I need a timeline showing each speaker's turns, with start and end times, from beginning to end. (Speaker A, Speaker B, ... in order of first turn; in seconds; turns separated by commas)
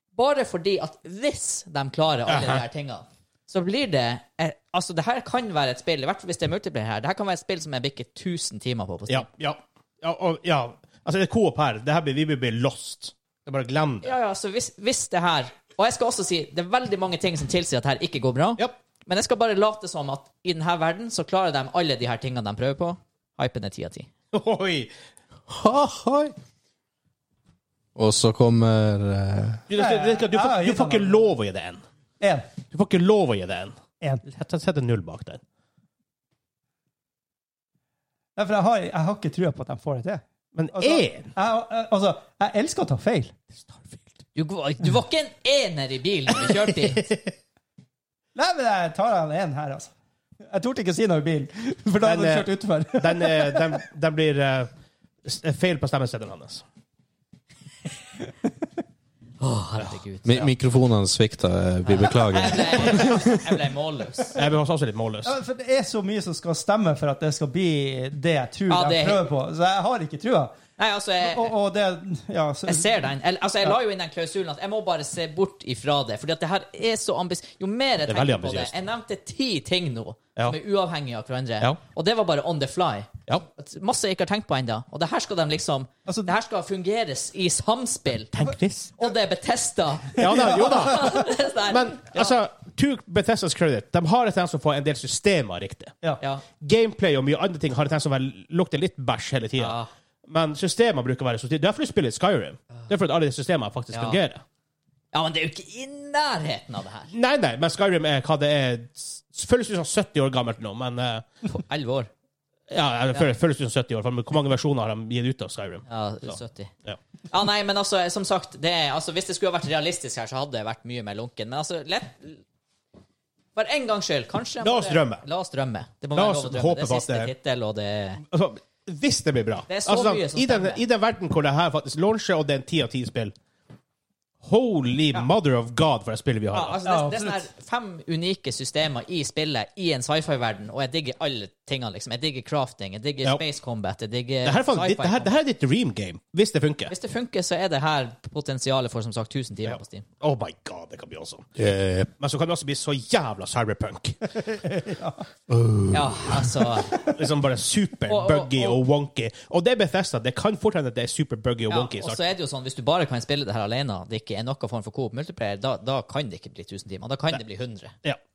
Speaker A: 0.1-9.3, Speaker B: 2.3-2.6, Speaker B: 9.1-14.1, Speaker A: 14.0-24.1, Speaker B: 24.3-24.9, Speaker C: 25.5-26.3, Speaker C: 27.9-29.6, Speaker B: 29.7-31.8, Speaker D: 29.8-31.3, Speaker D: 32.2-32.5, Speaker B: 32.7-35.4, Speaker D: 38.4-43.3, Speaker B: 40.5-41.3, Speaker B: 43.6-44.0, Speaker A: 44.3-47.0, Speaker B: 46.4-47.3, Speaker D: 48.3-49.9, Speaker D: 50.5-53.6, Speaker B: 52.0-54.7, Speaker B: 55.2-56.6, Speaker A: 59.4-60.5, Speaker C: 60.2-63.4, Speaker A: 61.8-64.4, Speaker B: 64.3-65.3, Speaker D: 65.2-70.6, Speaker A: 68.7-69.2, Speaker A: 70.8-71.5, Speaker D: 71.2-72.9, Speaker A: 72.7-88.5, Speaker B: 78.1-78.7, Speaker D: 86.1-86.3, Speaker B: 88.3-89.0, Speaker A: 89.0-92.3, Speaker B: 90.2-95.9, Speaker B: 96.6-104.4, Speaker A: 99.6-99.9, Speaker A: 103.9-104.2, Speaker A: 105.1-107.1, Speaker B: 107.1-111.2, Speaker A: 111.5-112.1, Speaker B: 112.7-117.0, Speaker A: 115.9-116.7, Speaker A: 117.3-122.4, Speaker A: 123.5-128.2, Speaker B: 124.6-125.2, Speaker B: 126.1-127.3, Speaker B: 128.2-133.3, Speaker A: 129.7-130.8, Speaker B: 134.4-136.8, Speaker A: 136.5-145.3, Speaker D: 136.8-137.4, Speaker B: 144.4-146.9, Speaker A: 146.9-150.0, Speaker B: 149.7-151.5, Speaker C: 151.6-152.1, Speaker B: 152.2-154.3, Speaker D: 154.4-155.2, Speaker C: 155.5-156.5, Speaker A: 155.9-157.1, Speaker B: 157.0-162.2, Speaker A: 158.1-158.8, Speaker A: 161.7-167.9